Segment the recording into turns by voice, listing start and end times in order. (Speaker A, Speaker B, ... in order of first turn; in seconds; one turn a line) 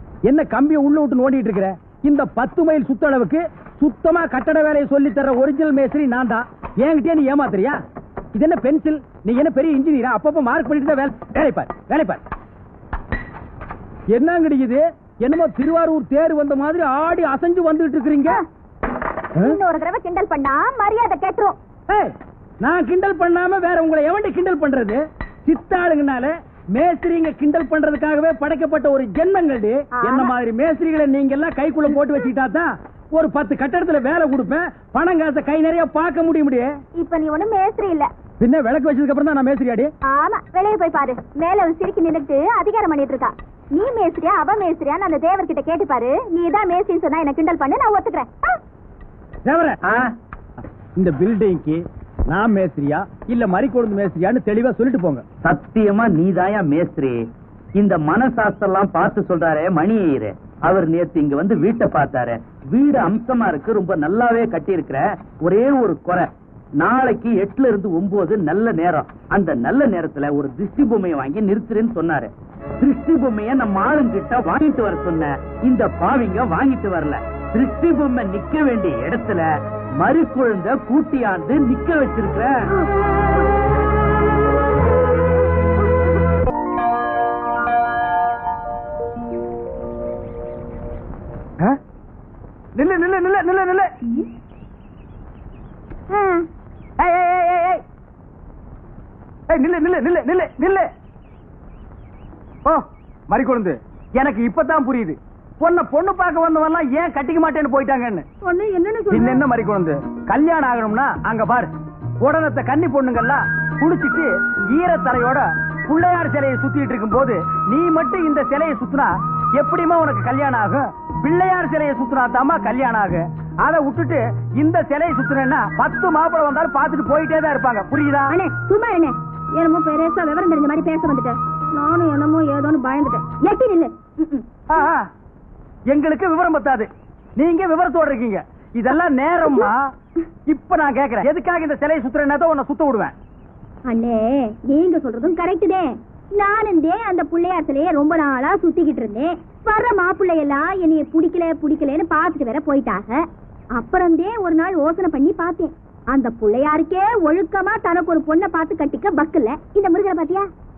Speaker A: 0.3-7.8
Speaker A: 8.3-12.2
Speaker A: 14.1-18.4
Speaker B: 19.4-21.6
Speaker A: 21.9-36.7
Speaker B: 29.9-30.3
Speaker B: 37.0-38.1
Speaker A: 38.4-39.9
Speaker B: 40.0-48.6
Speaker A: 49.5-49.8
Speaker C: 49.8-50.1
Speaker A: 51.0-55.2
Speaker C: 55.4-57.2
Speaker C: 57.8-66.3
Speaker C: 66.8-79.5
Speaker C: 80.0-82.7
Speaker A: 92.8-93.9
Speaker B: 96.1-96.5
Speaker A: 97.0-97.8
Speaker A: 99.5-100.9
Speaker A: 102.7-108.2
Speaker B: 108.4-109.4
Speaker A: 109.1-111.7
Speaker A: 112.2-128.3
Speaker B: 128.3-134.5
Speaker A: 134.7-135.1
Speaker A: 135.9-139.9
Speaker A: 140.5-143.1
Speaker B: 143.9-153.2
Speaker B: 153.8-160.5